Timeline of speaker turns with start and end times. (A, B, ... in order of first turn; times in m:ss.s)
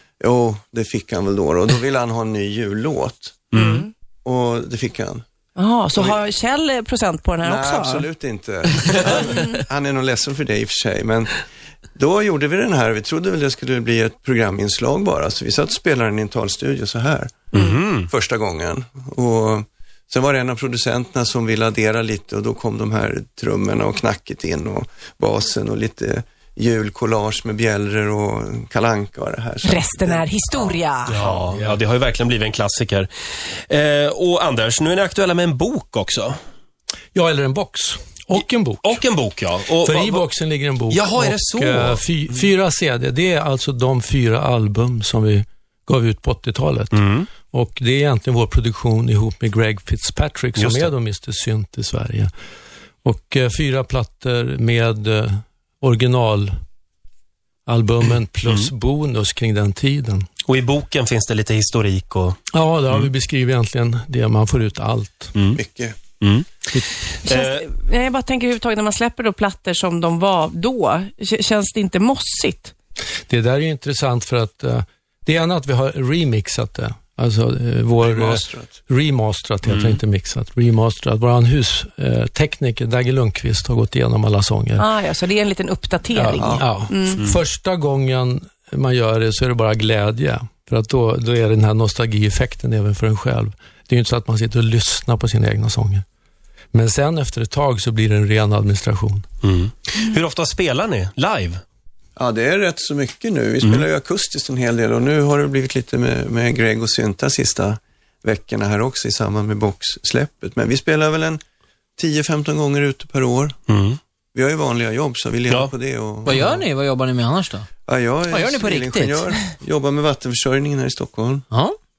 0:00.2-0:03.5 A
0:03.5-0:03.8 B
0:03.6-0:03.9 C
0:04.2-0:05.2 A
0:05.6-0:08.1 C
0:05.9-0:06.2 A
0:07.4-0:11.4 A
0:11.9-0:30.8 A
0:17.5-0:18.1 B
0:29.6-0:31.2 C
0:31.1-0:31.8 D
0:31.1-0:33.1 B
0:33.7-0:36.4 B
0:37.1-0:39.0 D
0:38.8-0:40.2 B
0:39.8-0:52.3 D
0:40.9-0:42.0 B
0:46.9-0:47.3 B
0:50.6-0:50.9 B
0:53.0-0:56.5 D
0:57.6-1:00.2 D
1:00.5-1:02.4 B
1:02.5-1:05.3 D
1:05.3-1:05.6 B
1:05.5-1:06.0 A
1:06.2-1:06.5 B
1:07.2-1:12.7 C
1:07.2-1:07.6 B
1:13.3-1:24.8 D
1:18.0-1:18.7 A
1:19.6-1:20.0 B
1:24.8-1:27.2 C
1:26.1-1:36.0 D
1:26.4-1:26.7 A
1:36.7-1:39.2 D
1:39.4-1:41.6 B
1:42.2-1:51.4 A
1:52.0-1:53.6 A
1:53.7-1:54.0 B
1:54.3-1:56.6 A
1:56.2-1:57.7 E
1:57.9-2:01.4 A
1:58.3-1:59.2 E